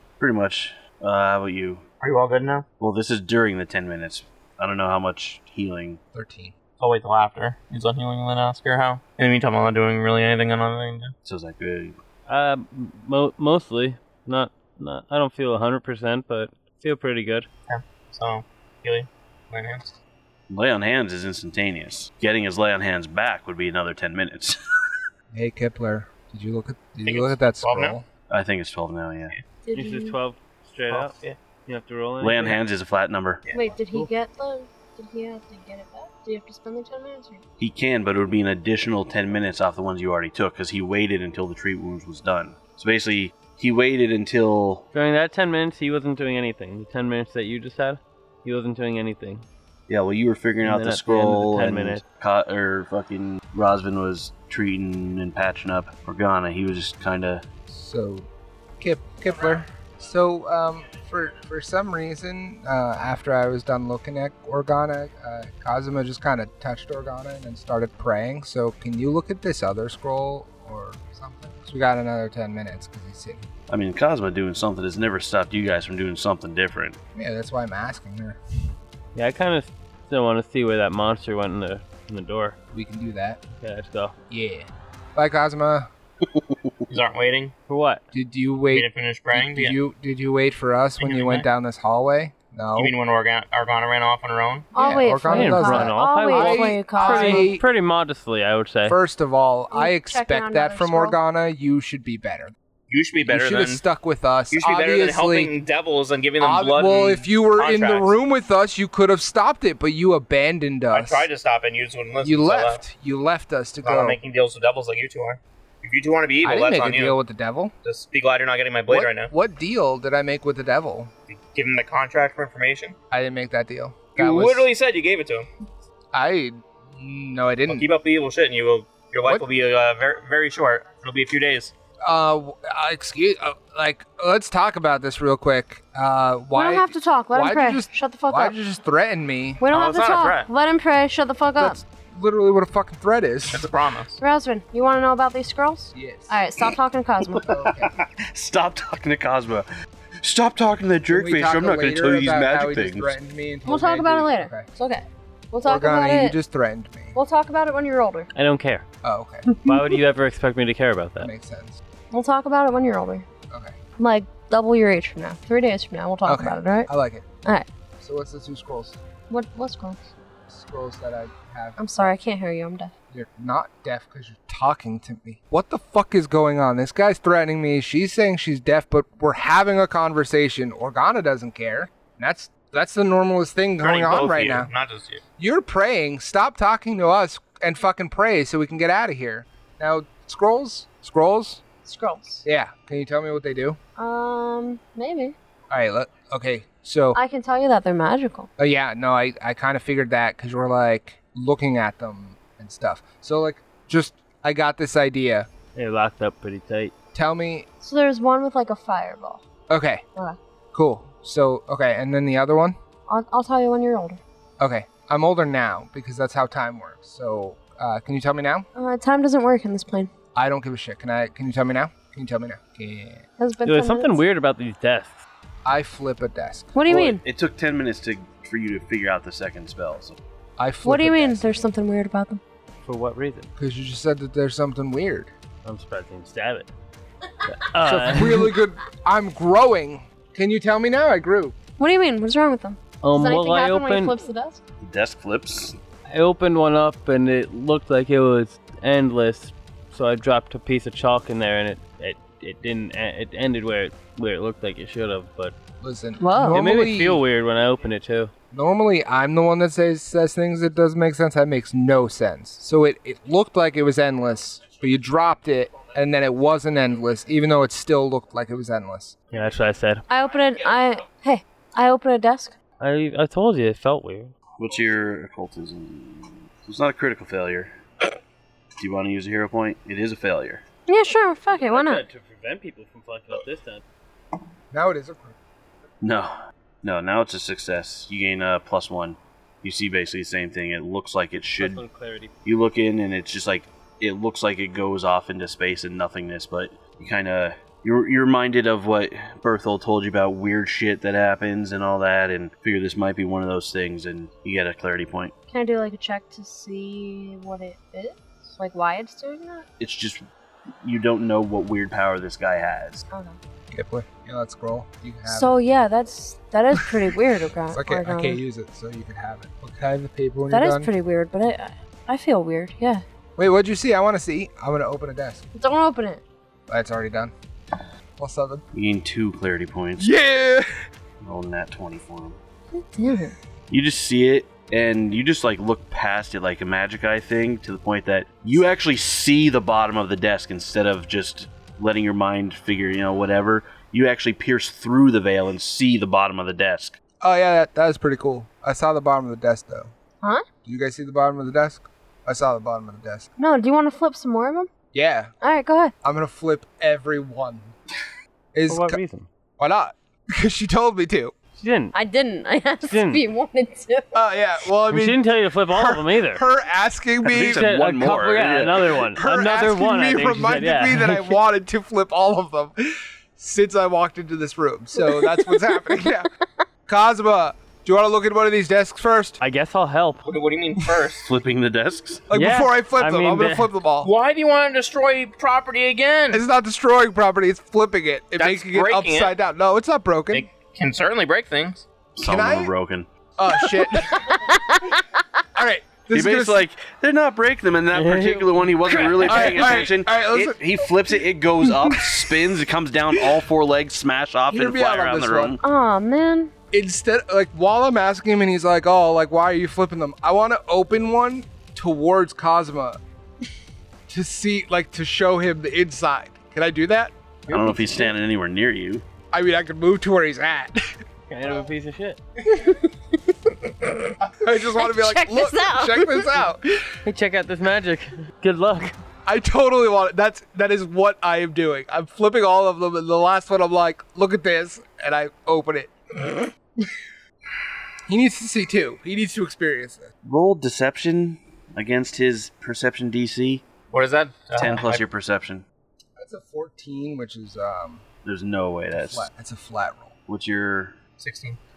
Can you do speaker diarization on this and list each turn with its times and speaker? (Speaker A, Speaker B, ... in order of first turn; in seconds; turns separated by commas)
Speaker A: 0.2-1.8, Speaker B: 2.0-2.7, Speaker A: 2.8-6.0, Speaker C: 6.1-6.5, Speaker B: 6.8-11.1, Speaker A: 11.2-11.9, Speaker D: 12.3-17.5, Speaker B: 17.7-19.9, Speaker A: 20.5-25.0, Speaker C: 25.3-28.1, Speaker B: 27.1-28.0, Speaker A: 28.3-29.4, Speaker E: 29.7-30.2, Speaker D: 29.7-32.6, Speaker B: 30.9-31.4, Speaker A: 32.2-33.4, Speaker E: 33.5-37.4, Speaker A: 37.6-44.9, Speaker D: 44.9-49.5, Speaker A: 49.9-57.5, Speaker D: 50.6-52.0, Speaker C: 57.7-58.3, Speaker C: 58.8-73.5, Speaker A: 73.7-77.0, Speaker C: 77.2-78.4, Speaker D: 79.2-82.6, Speaker C: 82.7-83.4, Speaker D: 83.5-84.1, Speaker C: 84.3-85.9, Speaker A: 86.2-86.8, Speaker B: 86.9-87.5, Speaker D: 87.7-88.0, Speaker C: 88.1-92.9, Speaker B: 88.7-89.8, Speaker B: 91.0-91.5, Speaker B: 92.8-94.7, Speaker E: 94.7-97.5, Speaker C: 94.8-97.6, Speaker D: 95.3-99.0, Speaker C: 98.9-102.5, Speaker E: 99.7-101.2, Speaker B: 102.9-103.8, Speaker C: 103.3-105.5, Speaker B: 104.5-108.2, Speaker C: 106.4-111.3, Speaker B: 110.9-112.8, Speaker C: 112.2-114.2, Speaker B: 113.8-117.2, Speaker C: 116.4-117.7, Speaker B: 117.8-119.3, Speaker C: 118.9-121.1, Speaker B: 121.3-123.0, Speaker C: 123.1-124.7, Speaker B: 124.2-125.5, Speaker C: 126.1-127.9, Speaker B: 127.7-131.7, Speaker C: 132.1-139.6, Speaker E: 136.6-138.6, Speaker E: 139.6-141.8, Speaker B: 139.7-140.5, Speaker C: 141.6-143.6, Speaker B: 143.5-144.2, Speaker E: 144.2-147.5, Speaker C: 145.9-146.4, Speaker A: 147.3-149.7, Speaker C: 147.5-147.9, Speaker A: 150.2-153.2, Speaker C: 151.1-154.7, Speaker E: 153.7-156.4, Speaker C: 155.6-157.2, Speaker E: 157.2-158.3, Speaker D: 158.3-158.8, Speaker C: 159.0-159.5, Speaker E: 159.5-160.0, Speaker D: 159.7-161.3, Speaker C: 161.2-161.8, Speaker E: 162.1-163.3, Speaker C: 163.5-163.8, Speaker E: 164.0-166.9, Speaker C: 166.2-167.2, Speaker C: 168.0-169.0, Speaker E: 169.3-170.1, Speaker C: 170.5-172.1, Speaker E: 171.8-172.9, Speaker C: 173.1-184.7, Speaker B: 183.8-185.2, Speaker C: 185.4-191.6, Speaker E: 191.8-192.5, Speaker C: 192.4-193.8, Speaker E: 194.0-195.3, Speaker C: 195.7-197.2, Speaker E: 197.2-198.5, Speaker C: 198.6-205.5, Speaker D: 205.8-206.9, Speaker C: 207.1-207.7, Speaker E: 207.8-209.4, Speaker C: 209.7-210.0, Speaker C: 210.7-212.8, Speaker E: 213.1-214.2, Speaker C: 214.6-218.7, Speaker E: 218.8-220.1, Speaker C: 220.3-223.3, Speaker E: 223.4-224.2, Speaker D: 223.6-225.2, Speaker C: 225.7-226.8, Speaker E: 226.8-227.2, Speaker A: 226.9-230.2, Speaker C: 230.6-231.7, Speaker E: 230.8-232.4, Speaker D: 232.8-233.5, Speaker C: 233.6-235.3, Speaker D: 235.7-236.7, Speaker D: 237.5-238.5, Speaker C: 237.8-241.6, Speaker E: 241.8-244.6, Speaker D: 243.0-244.2, Speaker A: 244.8-245.8, Speaker D: 246.1-255.6, Speaker C: 255.8-257.2, Speaker E: 256.2-256.6, Speaker D: 256.5-258.3, Speaker C: 258.5-269.2, Speaker D: 269.3-270.0, Speaker E: 270.1-272.6, Speaker D: 272.8-274.3, Speaker A: 274.6-277.8, Speaker A: 278.8-280.6, Speaker E: 280.9-282.0, Speaker D: 281.6-283.8, Speaker C: 284.7-285.4, Speaker A: 286.0-291.9, Speaker D: 291.6-292.3, Speaker A: 292.4-305.3, Speaker E: 305.5-309.7, Speaker A: 309.8-310.2, Speaker A: 310.8-313.1, Speaker E: 313.1-313.4, Speaker C: 313.7-315.6, Speaker E: 315.3-318.4, Speaker C: 317.7-320.9, Speaker E: 320.5-323.0, Speaker C: 323.4-325.5, Speaker E: 325.6-326.2, Speaker C: 326.7-327.3, Speaker C: 328.2-328.6, Speaker A: 328.7-330.1, Speaker C: 330.0-330.7, Speaker A: 331.2-332.4, Speaker E: 333.0-333.4, Speaker A: 333.7-347.0, Speaker C: 347.2-349.9, Speaker C: 350.6-353.3, Speaker E: 353.4-354.7, Speaker C: 354.9-355.3, Speaker E: 355.4-355.9, Speaker C: 356.0-357.7, Speaker C: 358.5-359.0, Speaker D: 358.7-359.3, Speaker C: 359.6-361.3, Speaker D: 361.6-361.9, Speaker E: 361.9-364.1, Speaker D: 362.9-363.2, Speaker C: 364.1-367.6, Speaker D: 364.9-366.4, Speaker A: 367.3-368.9, Speaker D: 367.3-371.4, Speaker C: 369.2-376.3, Speaker E: 375.0-375.3, Speaker C: 376.9-379.4, Speaker D: 379.4-380.3, Speaker B: 380.2-381.3, Speaker A: 381.2-382.3, Speaker C: 382.3-384.1, Speaker D: 382.3-383.7, Speaker B: 384.0-386.4, Speaker C: 386.3-390.5, Speaker B: 388.4-389.3, Speaker B: 390.3-391.9, Speaker A: 392.1-393.1, Speaker C: 392.2-392.7, Speaker C: 393.4-394.5, Speaker E: 394.0-395.2, Speaker C: 395.6-396.6, Speaker A: 396.1-405.6, Speaker D: 397.9-399.8, Speaker C: 399.2-400.9, Speaker C: 401.9-402.2, Speaker C: 404.5-405.6, Speaker E: 405.6-406.5, Speaker C: 406.7-413.0, Speaker C: 414.1-418.0, Speaker A: 417.5-419.0, Speaker C: 419.3-420.9, Speaker D: 421.3-422.2, Speaker E: 422.5-422.8, Speaker C: 424.2-426.9, Speaker E: 424.7-426.4, Speaker D: 427.0-428.9, Speaker C: 429.3-437.0, Speaker C: 438.1-440.1, Speaker A: 440.2-443.6, Speaker B: 443.9-445.0, Speaker A: 444.6-445.6, Speaker C: 446.2-448.1, Speaker A: 448.2-449.3, Speaker C: 448.9-450.1, Speaker A: 450.3-451.0, Speaker B: 451.2-451.6